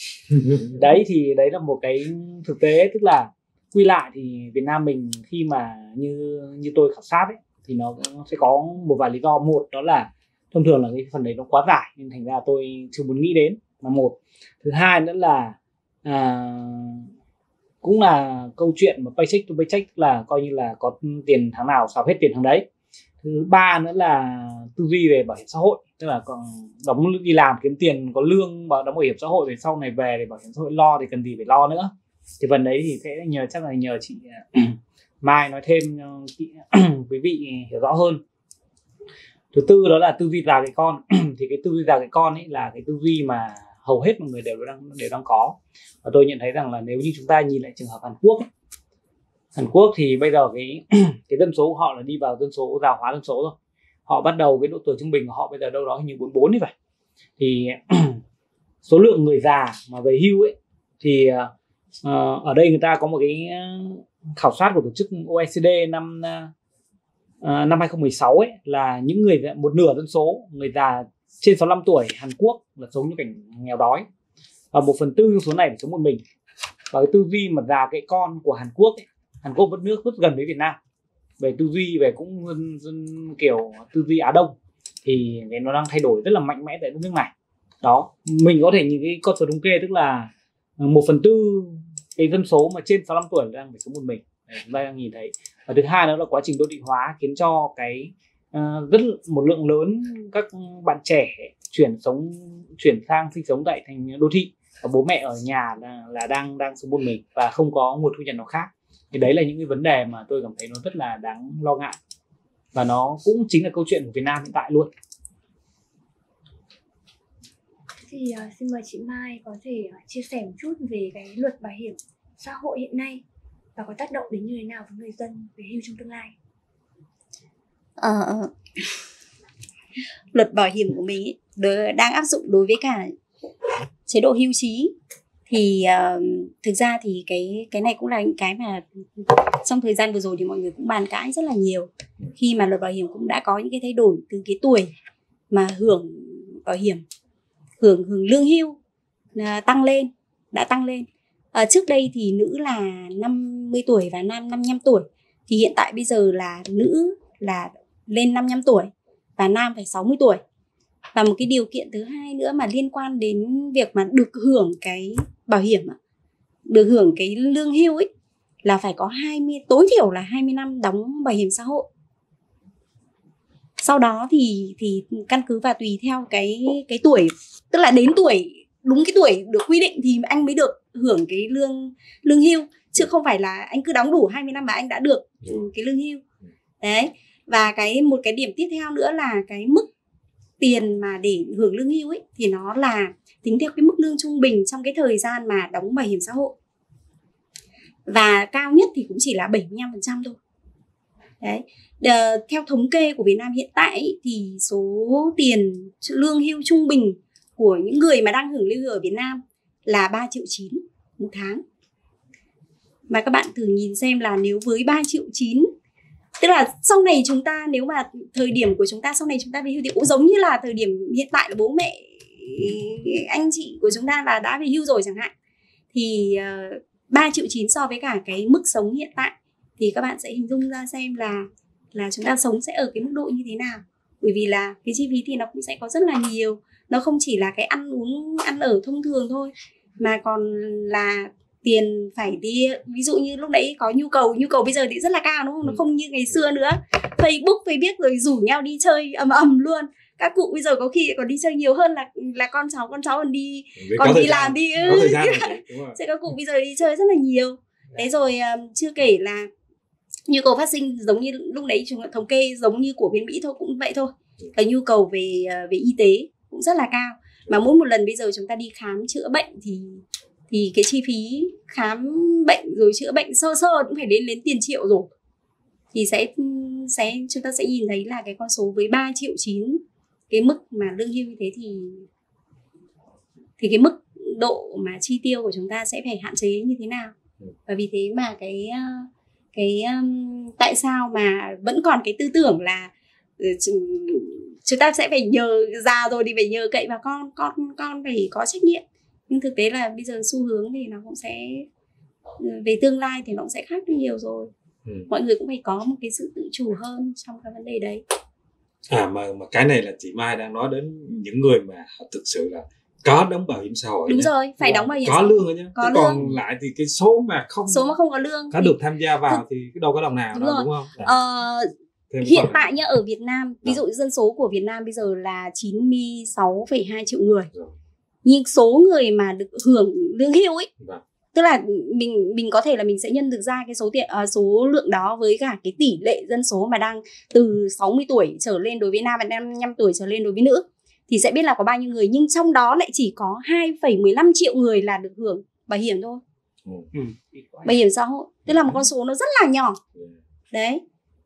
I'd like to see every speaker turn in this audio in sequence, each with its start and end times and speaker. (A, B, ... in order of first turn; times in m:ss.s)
0:00.7-0:17.1 A
0:17.8-0:22.7 A
0:23.2-0:38.2 A
0:39.5-0:48.5 A
0:49.5-0:53.6 A
0:54.1-0:56.7 A
0:57.4-0:58.2 A
0:58.8-1:01.5 A
1:02.0-1:06.5 A
1:07.4-1:14.1 A
1:14.7-1:16.2 A
1:16.9-1:20.8 A
1:21.4-1:52.0 A
1:52.7-1:54.9 A
1:58.1-2:03.2 B
2:03.8-2:06.4 B
2:08.0-2:08.9 C
2:10.3-2:13.1 C
2:14.0-2:14.9 C
2:15.5-2:24.9 C
2:25.5-2:27.0 C
2:27.8-2:28.8 C
2:29.4-2:40.4 C
2:41.1-2:46.0 C
2:46.7-2:48.1 C
2:48.6-2:51.9 C
2:53.8-3:06.2 C
3:06.8-3:09.9 C
3:10.6-3:16.5 C
3:18.1-3:20.4 C
3:21.4-3:31.6 C
3:33.1-3:35.7 C
3:36.4-3:45.3 C
3:45.9-4:19.5 C
4:05.6-4:06.4 D
4:13.8-4:16.0 D
4:20.3-4:35.1 C
4:35.9-4:42.1 C
4:43.6-4:47.1 C
4:47.7-5:01.7 C
5:02.4-5:04.5 C
5:04.8-5:05.1 D
5:05.1-5:08.0 C
5:08.9-5:18.0 D
5:14.0-5:16.2 C
5:17.7-5:18.8 C
5:18.5-5:21.1 D
5:20.3-5:27.5 C
5:22.1-5:22.7 D
5:28.2-5:30.7 C
5:31.3-5:46.2 C
5:46.6-5:46.9 D
5:46.9-5:47.7 A
5:47.6-5:49.8 C
5:48.5-5:48.8 D
5:50.5-5:50.8 C